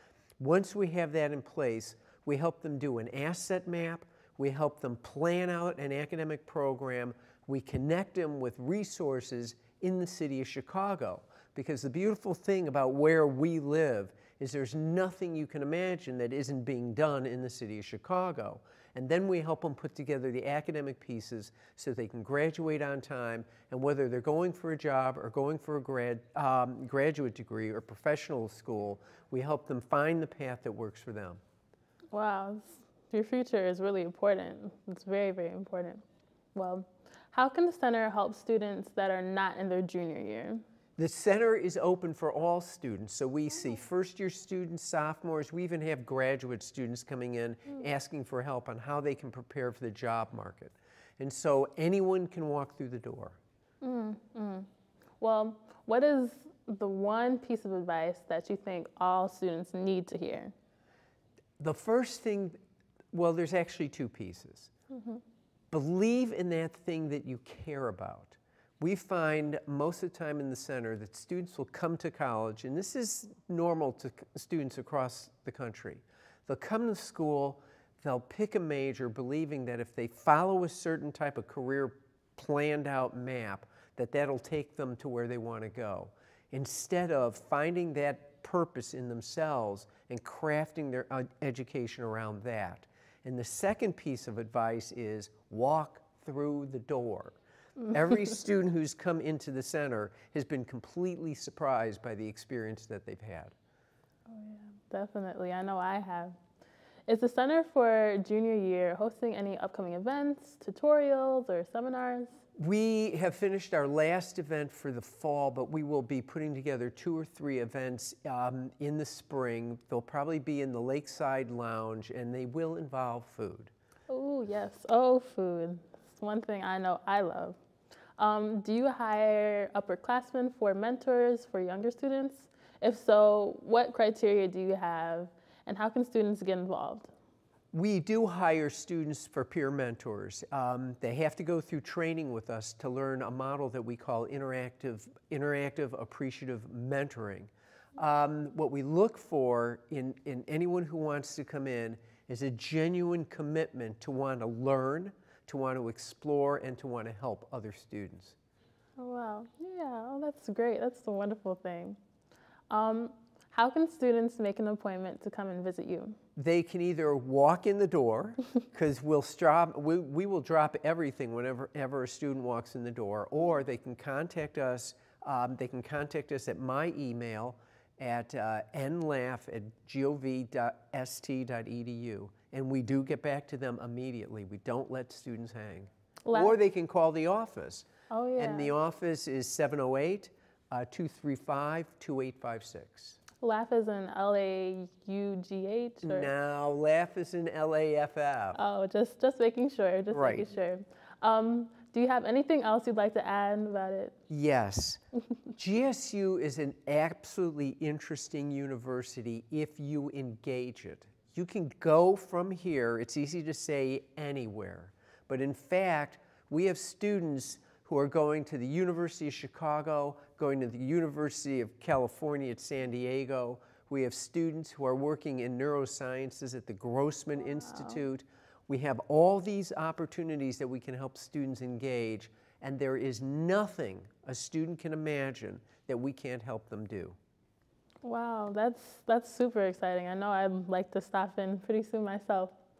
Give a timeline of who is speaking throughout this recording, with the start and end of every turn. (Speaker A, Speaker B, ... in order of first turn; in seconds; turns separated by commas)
Speaker A: 0.4-31.4, Speaker B: 32.1-36.0, Speaker B: 36.5-40.6, Speaker A: 41.0-53.4, Speaker B: 53.8-54.7, Speaker B: 55.2-60.5, Speaker A: 61.6-62.6, Speaker A: 63.1-64.7, Speaker B: 64.9-65.2, Speaker A: 65.7-97.4, Speaker A: 97.9-103.5, Speaker B: 104.3-106.4, Speaker B: 107.1-112.4, Speaker A: 112.6-123.7, Speaker B: 124.1-127.6, Speaker B: 128.2-137.1, Speaker A: 137.7-158.4, Speaker B: 159.0-162.0, Speaker B: 162.7-166.2, Speaker A: 166.3-193.2, Speaker B: 186.2-186.5, Speaker B: 188.1-188.7, Speaker B: 193.4-196.3, Speaker A: 196.0-198.6, Speaker B: 198.6-204.2, Speaker A: 200.1-200.5, Speaker A: 204.3-205.0, Speaker A: 205.6-237.2, Speaker B: 227.7-228.0, Speaker B: 238.0-242.6